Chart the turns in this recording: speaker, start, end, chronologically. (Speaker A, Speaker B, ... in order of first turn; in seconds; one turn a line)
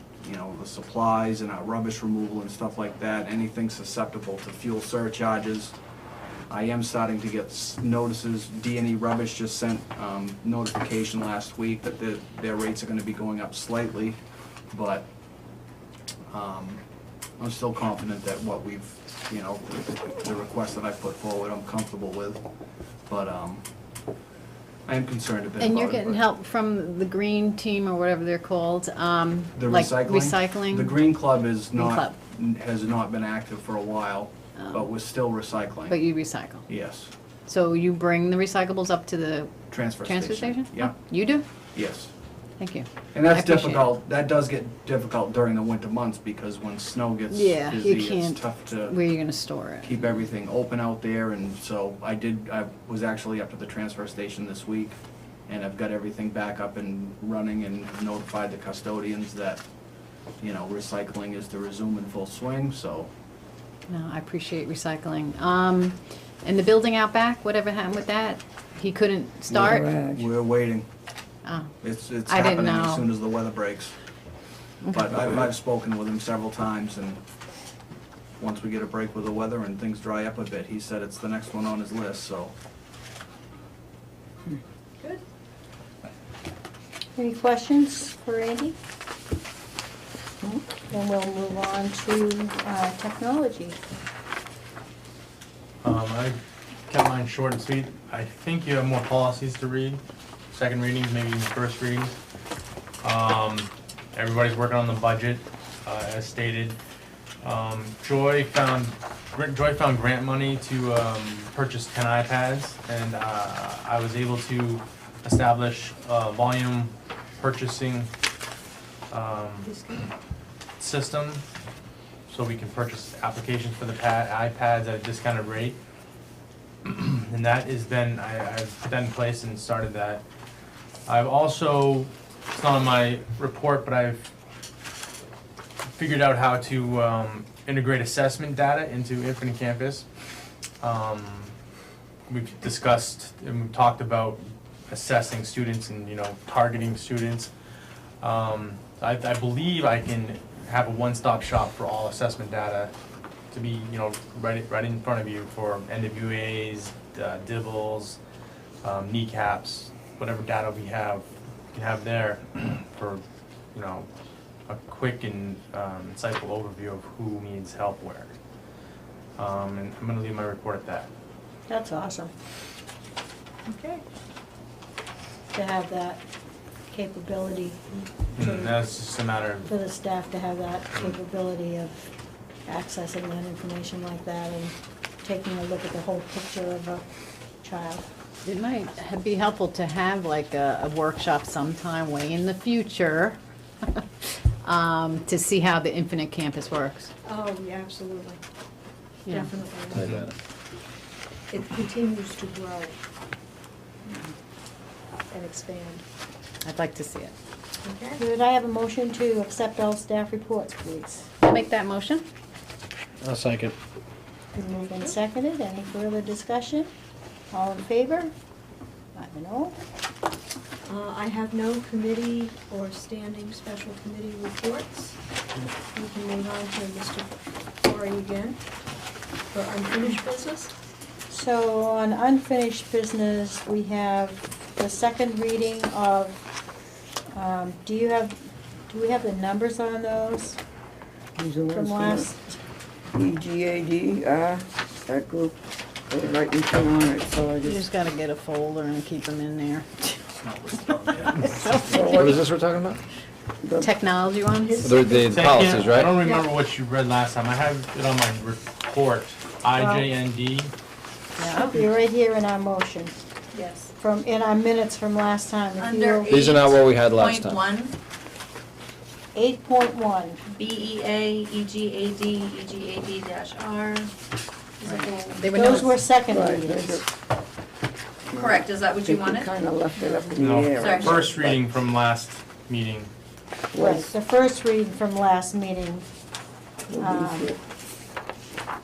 Speaker A: 0.2-5.7
Speaker A: 6.5-14.2
Speaker A: 14.7-15.1
Speaker A: 16.3-16.8
Speaker A: 17.4-22.4
Speaker A: 23.1-23.6
Speaker A: 24.9-26.2
Speaker B: 25.6-31.2
Speaker A: 29.6-36.0
Speaker B: 31.7-32.1
Speaker B: 34.6-34.9
Speaker B: 35.9-36.6
Speaker A: 36.7-37.1
Speaker B: 37.5-41.4
Speaker A: 39.7-41.0
Speaker A: 41.7-42.1
Speaker B: 42.6-43.9
Speaker A: 43.1-49.0
Speaker B: 47.3-50.0
Speaker A: 49.8-59.6
Speaker A: 60.4-63.1
Speaker B: 63.9-69.8
Speaker A: 69.5-70.9
Speaker C: 69.5-70.3
Speaker B: 71.4-71.7
Speaker A: 71.8-73.9
Speaker B: 72.2-73.1
Speaker A: 74.9-77.2
Speaker A: 78.4-82.5
Speaker D: 87.2-88.8
Speaker D: 90.9-93.8
Speaker E: 95.8-100.0
Speaker E: 100.5-102.2
Speaker E: 103.0-106.8
Speaker E: 107.4-118.1
Speaker E: 119.1-119.8
Speaker F: 119.7-120.1
Speaker E: 120.8-121.4
Speaker E: 122.3-125.8
Speaker E: 126.8-130.2
Speaker E: 131.1-134.3
Speaker E: 135.9-140.1
Speaker E: 140.8-141.5
Speaker E: 142.3-147.5
Speaker E: 148.2-152.9
Speaker E: 153.5-158.2
Speaker E: 158.8-163.2
Speaker E: 163.7-164.1
Speaker E: 164.7-168.3
Speaker E: 169.4-171.1
Speaker D: 171.7-172.3
Speaker D: 173.7-174.0
Speaker D: 175.5-176.2
Speaker D: 176.9-178.8
Speaker E: 178.3-179.7
Speaker D: 179.7-182.1
Speaker D: 182.7-187.0
Speaker D: 187.6-188.1
Speaker B: 188.4-197.1
Speaker F: 197.2-198.4
Speaker B: 199.2-199.5
Speaker F: 199.3-200.2
Speaker E: 200.0-200.2
Speaker G: 200.0-200.3
Speaker F: 201.5-202.9
Speaker F: 205.3-206.0
Speaker B: 206.6-207.3
Speaker F: 207.8-208.2
Speaker D: 208.2-211.3
Speaker B: 211.4-212.2
Speaker E: 213.2-213.6
Speaker D: 214.5-216.9
Speaker F: 214.6-215.2
Speaker D: 217.5-218.3
Speaker D: 219.1-219.8
Speaker F: 220.8-225.2
Speaker F: 225.9-228.6
Speaker F: 229.5-230.7
Speaker D: 231.3-236.4
Speaker D: 237.3-238.3
Speaker D: 238.9-240.6
Speaker C: 241.4-242.3
Speaker D: 241.7-242.6
Speaker C: 243.1-245.6
Speaker C: 246.1-247.9
Speaker B: 247.6-252.4
Speaker A: 250.4-251.5
Speaker C: 251.9-252.4
Speaker G: 252.1-253.0
Speaker C: 253.6-253.9
Speaker B: 253.8-255.0
Speaker F: 254.5-255.4
Speaker G: 254.8-256.1
Speaker E: 255.3-260.7
Speaker F: 256.2-256.5
Speaker D: 259.8-260.1
Speaker B: 261.4-261.8
Speaker D: 261.7-263.1
Speaker H: 263.5-263.8
Speaker D: 264.0-266.6
Speaker H: 265.8-266.5
Speaker G: 266.3-267.6
Speaker H: 267.2-267.8
Speaker D: 269.3-270.4
Speaker H: 270.6-274.1
Speaker H: 274.9-275.4
Speaker B: 275.4-276.0
Speaker D: 275.5-277.0
Speaker C: 276.2-277.0
Speaker C: 278.3-281.6
Speaker H: 278.4-279.4
Speaker E: 280.4-283.1
Speaker C: 283.7-284.1
Speaker D: 283.8-286.0
Speaker C: 286.9-287.6
Speaker D: 287.0-287.5